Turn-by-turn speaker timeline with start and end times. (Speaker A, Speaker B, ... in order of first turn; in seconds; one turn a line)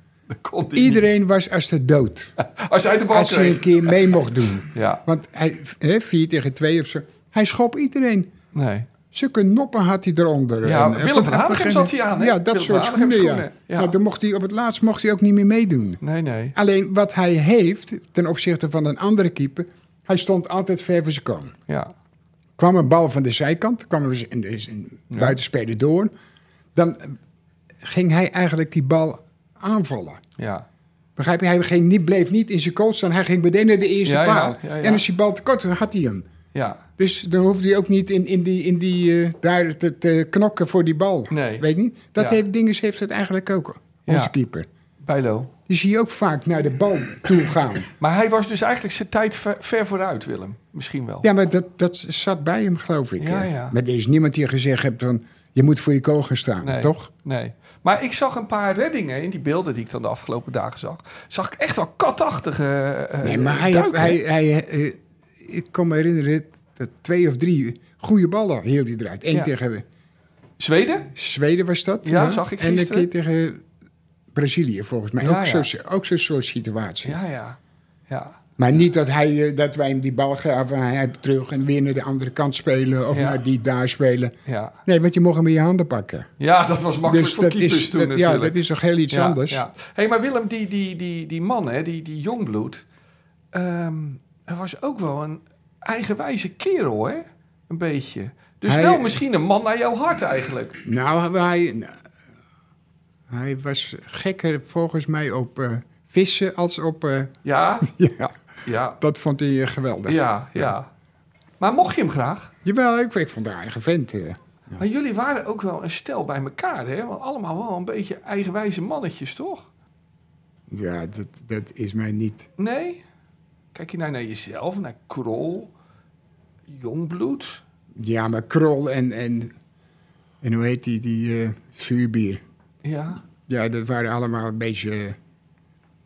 Speaker A: 0.3-1.1
Speaker B: 0.7-2.3
Speaker A: 2.4-5.0
Speaker B: 3.1-8.3
Speaker A: 8.5-8.9
Speaker B: 9.1-16.0
Speaker A: 10.6-14.0
Speaker A: 16.0-16.6
Speaker B: 16.6-21.6
Speaker A: 21.7-21.9
Speaker B: 22.6-26.1
Speaker A: 25.1-25.4
Speaker B: 26.8-27.2
Speaker B: 27.8-30.2
Speaker A: 30.4-30.7
Speaker B: 31.2-36.3
Speaker A: 34.0-35.0
Speaker A: 36.5-36.8
Speaker B: 37.0-44.7
Speaker A: 41.3-41.7
Speaker A: 44.1-44.3
Speaker A: 45.0-45.5
Speaker B: 45.7-47.9
Speaker A: 48.0-51.3
Speaker B: 51.2-57.1
Speaker A: 53.2-53.8
Speaker A: 56.6-64.2
Speaker B: 63.2-69.8
Speaker A: 70.6-71.1
Speaker B: 71.1-73.6
Speaker A: 72.0-73.1
Speaker B: 74.3-77.2
Speaker A: 75.2-75.7
Speaker A: 77.0-77.6
Speaker A: 78.1-78.4
Speaker B: 78.6-86.3
Speaker A: 83.1-83.4
Speaker A: 84.5-84.8
Speaker A: 86.4-88.6
Speaker B: 87.0-89.7
Speaker A: 89.1-92.8
Speaker A: 93.5-100.8
Speaker B: 98.7-99.2
Speaker B: 100.8-102.0
Speaker B: 103.3-108.4
Speaker A: 107.4-107.9
Speaker A: 108.6-109.0
Speaker B: 109.0-110.7
Speaker A: 110.1-110.9
Speaker A: 111.6-112.5
Speaker B: 112.6-114.8
Speaker A: 114.8-119.7
Speaker B: 120.7-122.5
Speaker A: 122.6-123.0
Speaker A: 123.7-125.7
Speaker A: 126.7-127.6
Speaker B: 128.0-129.5
Speaker B: 130.4-132.4
Speaker A: 132.8-133.2
Speaker B: 133.4-135.2